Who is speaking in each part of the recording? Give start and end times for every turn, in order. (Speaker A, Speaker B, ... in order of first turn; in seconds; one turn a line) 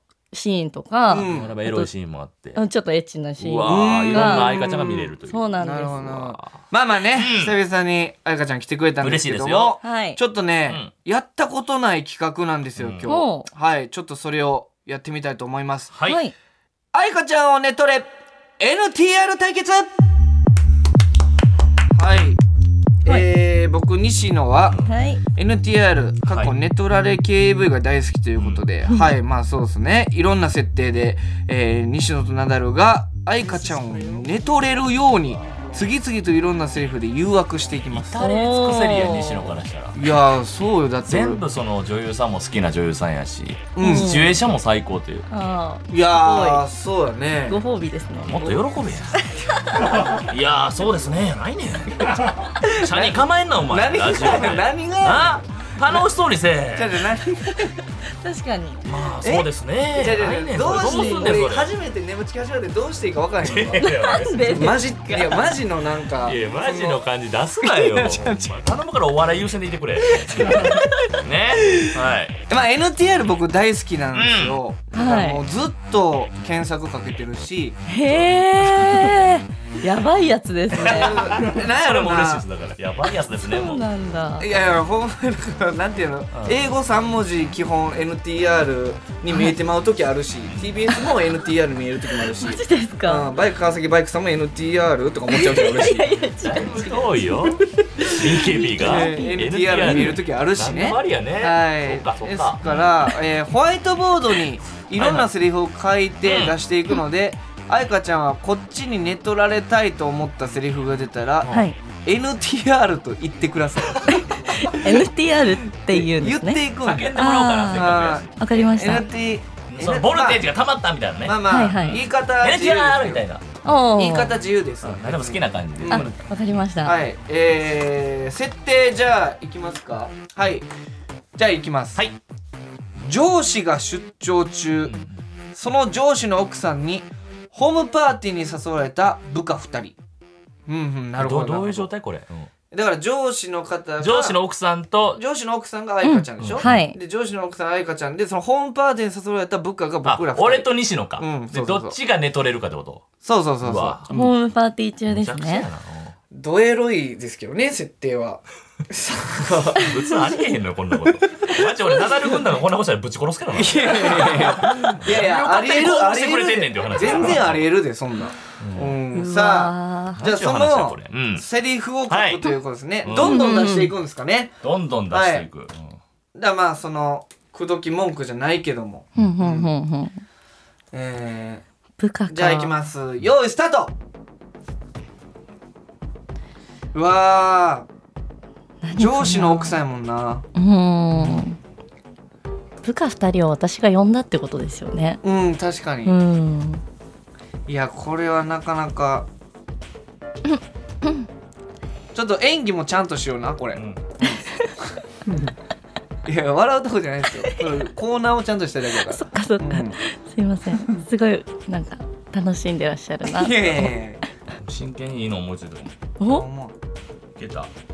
Speaker A: 0.3-1.9
Speaker B: 1.1-1.6
Speaker C: 1.3-2.6
Speaker A: 2.5-6.0
Speaker C: 3.4-7.6
Speaker B: 3.7-4.8
Speaker B: 5.6-15.9
Speaker C: 9.0-9.8
Speaker A: 9.8-10.2
Speaker C: 10.7-10.9
Speaker C: 12.8-13.1
Speaker A: 13.1-13.5
Speaker C: 15.9-16.2
Speaker A: 16.1-16.3
Speaker B: 16.9-19.9
Speaker B: 21.9-22.4
Speaker B: 23.0-24.8
Speaker A: 24.9-25.2
Speaker B: 25.4-38.2
Speaker C: 26.3-26.5
Speaker C: 28.4-28.6
Speaker C: 33.6-34.2
Speaker C: 37.9-40.0
Speaker A: 38.2-39.5
Speaker B: 39.9-41.4
Speaker C: 41.1-45.3
Speaker B: 43.8-44.3
Speaker A: 43.8-44.3
Speaker A: 45.3-46.6
Speaker B: 45.9-47.6
Speaker A: 47.5-48.4
Speaker C: 48.2-49.2
Speaker B: 48.4-48.6
Speaker A: 49.2-50.0
Speaker C: 50.1-57.1
Speaker B: 52.6-56.1
Speaker B: 56.7-57.7
Speaker A: 58.2-58.9
Speaker C: 58.8-61.7
Speaker B: 59.2-67.0
Speaker A: 60.8-61.4
Speaker C: 63.4-64.5
Speaker A: 63.8-65.4
Speaker C: 66.2-72.4
Speaker B: 67.6-68.6
Speaker B: 70.1-71.1
Speaker B: 71.6-72.0
Speaker B: 72.5-77.8
Speaker C: 74.2-74.6
Speaker A: 74.9-75.4
Speaker A: 77.9-81.2
Speaker C: 78.6-79.2
Speaker C: 80.8-83.8
Speaker B: 80.8-82.5
Speaker A: 83.4-84.5
Speaker B: 84.4-96.1
Speaker C: 86.3-86.7
Speaker C: 90.5-90.8
Speaker A: 92.4-93.3
Speaker A: 95.3-97.5
Speaker C: 96.5-103.0
Speaker A: 98.0-99.4
Speaker B: 98.7-115.1
Speaker C: 105.0-105.3
Speaker C: 106.2-106.5
Speaker A: 111.5-111.8
Speaker C: 113.9-114.2
Speaker A: 114.3-116.6
Speaker B: 115.8-120.5
Speaker C: 116.8-118.3
Speaker A: 117.2-119.1
Speaker C: 119.7-123.4
Speaker B: 121.2-123.2
Speaker A: 121.5-122.0
Speaker A: 123.6-124.4
Speaker B: 123.9-126.1
Speaker C: 124.8-126.3
Speaker A: 125.9-127.0
Speaker B: 126.8-130.7
Speaker B: 131.4-132.0
Speaker B: 133.0-135.0
Speaker C: 134.8-135.2
Speaker B: 135.6-140.0
Speaker B: 140.7-141.9
Speaker C: 141.2-142.5
Speaker B: 142.7-144.4
Speaker C: 144.0-145.2
Speaker B: 145.2-152.0
Speaker A: 146.0-147.0
Speaker C: 146.4-146.8
Speaker C: 150.1-153.1
Speaker B: 153.2-154.3
Speaker C: 153.6-154.1
Speaker A: 154.1-155.7
Speaker C: 155.1-156.2
Speaker B: 156.3-160.2
Speaker C: 159.4-167.7
Speaker B: 161.3-161.6
Speaker B: 163.5-174.5
Speaker C: 168.6-169.0
Speaker A: 169.1-170.2
Speaker C: 170.2-171.5
Speaker C: 172.1-172.5
Speaker C: 173.1-173.4
Speaker A: 173.2-173.9
Speaker C: 174.6-175.9
Speaker B: 175.1-175.5
Speaker B: 176.3-179.7
Speaker A: 179.2-180.2
Speaker B: 180.9-181.6
Speaker A: 182.0-182.7
Speaker B: 182.3-184.0
Speaker B: 186.9-187.9
Speaker A: 188.8-189.8
Speaker B: 189.0-190.5
Speaker A: 190.6-191.6
Speaker B: 191.1-191.4
Speaker A: 192.8-195.2
Speaker B: 195.2-196.2
Speaker A: 196.1-196.8
Speaker B: 197.7-199.3
Speaker A: 200.5-201.3
Speaker B: 202.1-204.4
Speaker C: 203.8-204.1
Speaker A: 204.4-204.7
Speaker B: 205.3-205.5
Speaker B: 206.2-210.0
Speaker A: 209.1-213.9
Speaker B: 213.3-214.2
Speaker C: 214.6-216.0
Speaker A: 216.2-216.5
Speaker B: 216.3-216.8
Speaker C: 217.4-217.7